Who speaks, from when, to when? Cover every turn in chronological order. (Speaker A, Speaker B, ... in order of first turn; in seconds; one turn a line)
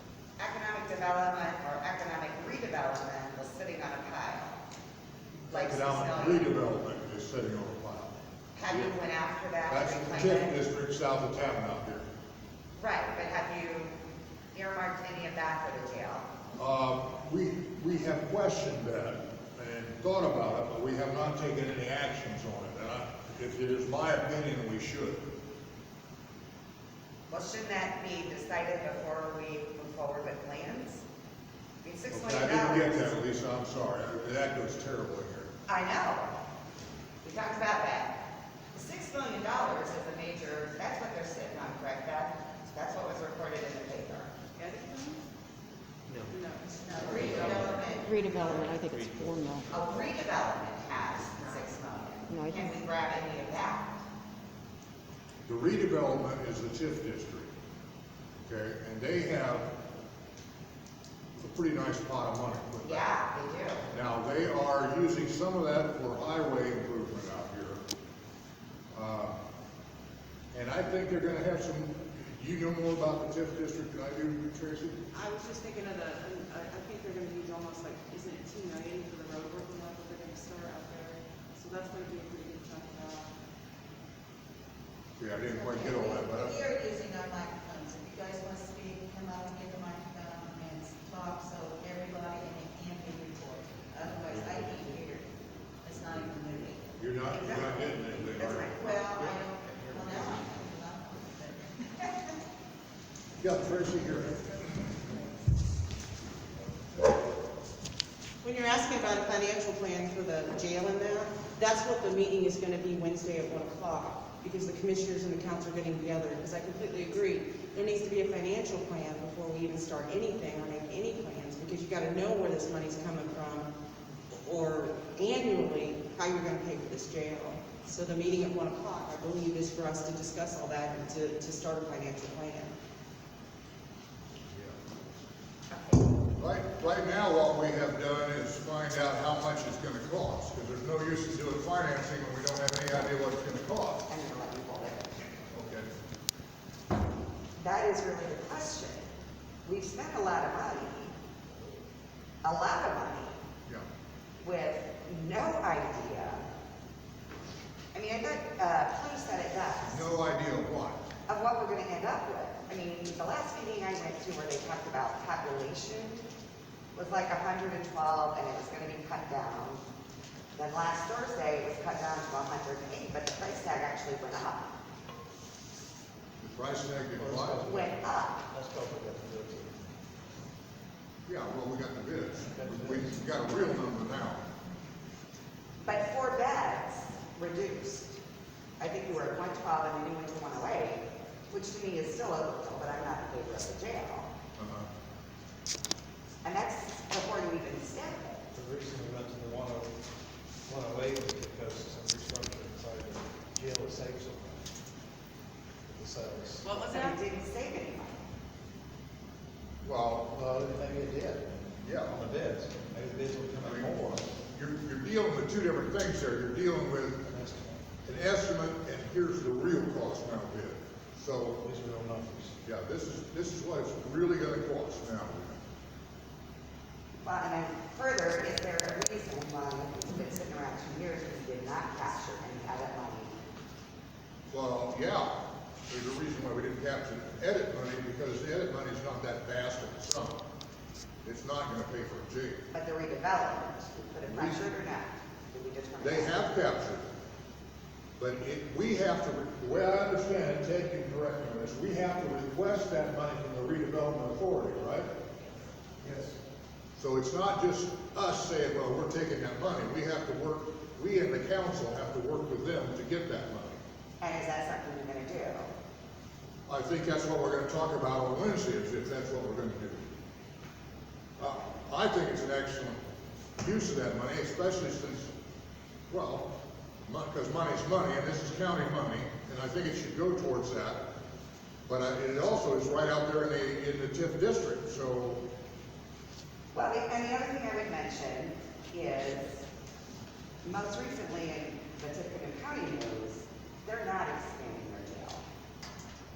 Speaker A: 0.4-4.6
Speaker A: 5.5-6.5
Speaker B: 5.5-8.1
Speaker A: 8.5-10.6
Speaker B: 9.7-12.1
Speaker A: 12.8-13.9
Speaker A: 14.5-16.3
Speaker B: 16.6-25.2
Speaker A: 27.3-31.0
Speaker A: 31.8-33.1
Speaker B: 32.1-35.5
Speaker A: 35.7-36.3
Speaker A: 37.2-38.2
Speaker A: 38.7-44.3
Speaker C: 44.5-45.2
Speaker C: 46.2-47.8
Speaker D: 46.7-48.8
Speaker E: 46.9-50.1
Speaker A: 47.0-47.8
Speaker C: 48.4-48.8
Speaker A: 49.7-54.0
Speaker E: 52.3-52.5
Speaker B: 55.5-57.5
Speaker B: 58.5-59.7
Speaker B: 61.4-63.0
Speaker A: 62.8-63.9
Speaker B: 63.9-67.8
Speaker B: 68.9-69.4
Speaker B: 70.5-75.0
Speaker C: 75.1-83.3
Speaker B: 85.2-86.6
Speaker D: 85.5-95.2
Speaker D: 95.8-96.8
Speaker B: 97.0-99.3
Speaker A: 97.3-99.3
Speaker D: 98.8-102.3
Speaker B: 99.8-100.4
Speaker B: 103.4-104.8
Speaker C: 108.4-123.7
Speaker C: 124.3-132.7
Speaker A: 135.7-136.1
Speaker B: 136.4-144.1
Speaker A: 144.1-145.3
Speaker B: 145.5-145.9
Speaker A: 147.6-149.1
Speaker A: 149.6-151.1
Speaker A: 152.4-153.4
Speaker A: 154.4-156.4
Speaker A: 157.9-160.0
Speaker B: 159.8-161.0
Speaker A: 161.3-166.2
Speaker A: 166.9-169.8
Speaker A: 170.6-174.7
Speaker B: 176.4-177.7
Speaker F: 177.2-179.9
Speaker A: 177.6-178.4
Speaker B: 181.3-184.4
Speaker F: 182.5-183.1
Speaker A: 185.8-188.2
Speaker A: 188.8-194.3
Speaker B: 194.6-194.9
Speaker A: 196.4-198.4
Speaker F: 198.5-199.9
Speaker F: 200.7-204.7
Speaker F: 205.8-206.7
Speaker C: 206.6-207.2
Speaker A: 206.9-208.2
Speaker B: 209.8-210.3
Speaker F: 210.3-211.5
Speaker B: 211.8-212.2
Speaker F: 212.1-214.3
Speaker B: 213.6-213.9
Speaker B: 214.4-217.2
Speaker F: 217.2-217.8
Speaker B: 218.0-221.6
Speaker F: 221.6-222.6
Speaker B: 222.6-225.6
Speaker A: 227.2-233.4
Speaker B: 234.5-235.3
Speaker B: 235.9-240.4
Speaker B: 241.2-242.6
Speaker A: 242.7-246.5
Speaker B: 244.2-244.6
Speaker B: 246.0-247.0
Speaker B: 248.2-255.1
Speaker F: 256.0-256.3
Speaker B: 257.0-263.8
Speaker A: 264.2-265.7
Speaker B: 266.7-270.0
Speaker B: 271.4-273.0
Speaker B: 273.6-275.3
Speaker B: 276.1-276.5
Speaker B: 277.1-281.0
Speaker B: 281.9-285.4
Speaker A: 286.7-289.6
Speaker A: 290.6-295.4